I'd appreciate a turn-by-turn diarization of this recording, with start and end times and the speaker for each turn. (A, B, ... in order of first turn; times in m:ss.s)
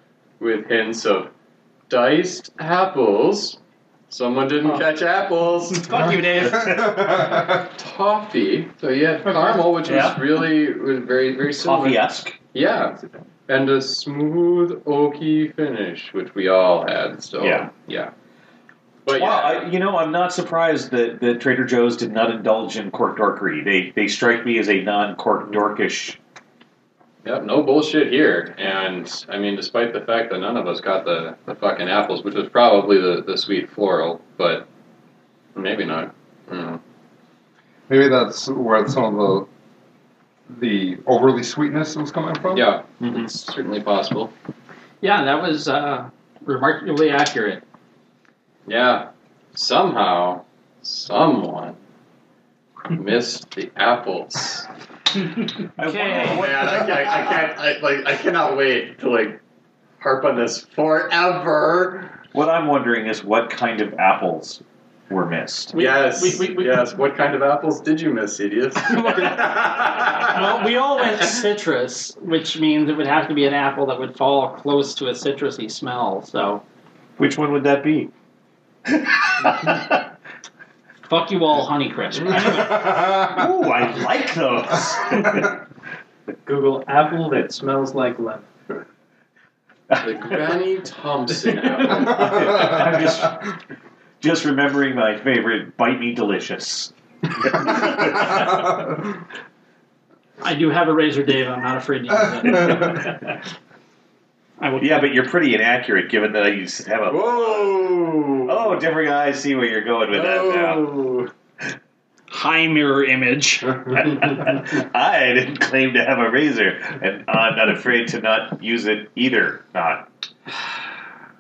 0:00.4-0:01.3 A
0:01.9-0:03.6 A
0:04.1-0:05.9 A
0:05.8-0:06.8 B
0:06.4-0:07.7 C
0:07.5-0:12.0 A
0:09.8-0:10.2 D
0:11.6-0:12.4 D
0:12.5-0:18.1 A
0:17.4-0:17.7 D
0:19.0-0:19.7 A
0:19.1-0:26.2 D
0:27.2-0:34.7 A
0:35.6-0:36.8 A
0:37.9-0:39.5 C
0:40.5-0:42.7 C
0:42.5-0:44.3 A
0:43.0-0:43.3 D
0:45.0-0:47.6 B
0:48.6-0:51.8 A
0:52.9-0:54.7 A
0:55.8-0:57.3 D
0:55.8-0:56.5 B
0:56.2-0:59.4 A
1:00.0-1:02.1 A
1:02.3-1:05.8 D
1:05.7-1:06.9 B
1:05.7-1:10.6 A
1:08.9-1:16.6 B
1:17.2-1:18.1 D
1:18.9-1:20.0 D
1:21.1-1:23.2 B
1:23.1-1:25.6 D
1:26.4-1:28.5 E
1:29.9-1:30.4 D
1:30.0-1:32.6 A
1:31.8-1:33.5 D
1:34.2-1:38.9 D
1:40.4-1:43.4 B
1:44.6-1:45.1 B
1:44.8-1:50.9 D
1:47.1-1:48.8 A
1:50.1-1:51.3 A
1:52.3-1:54.2 B
1:53.9-2:00.1 D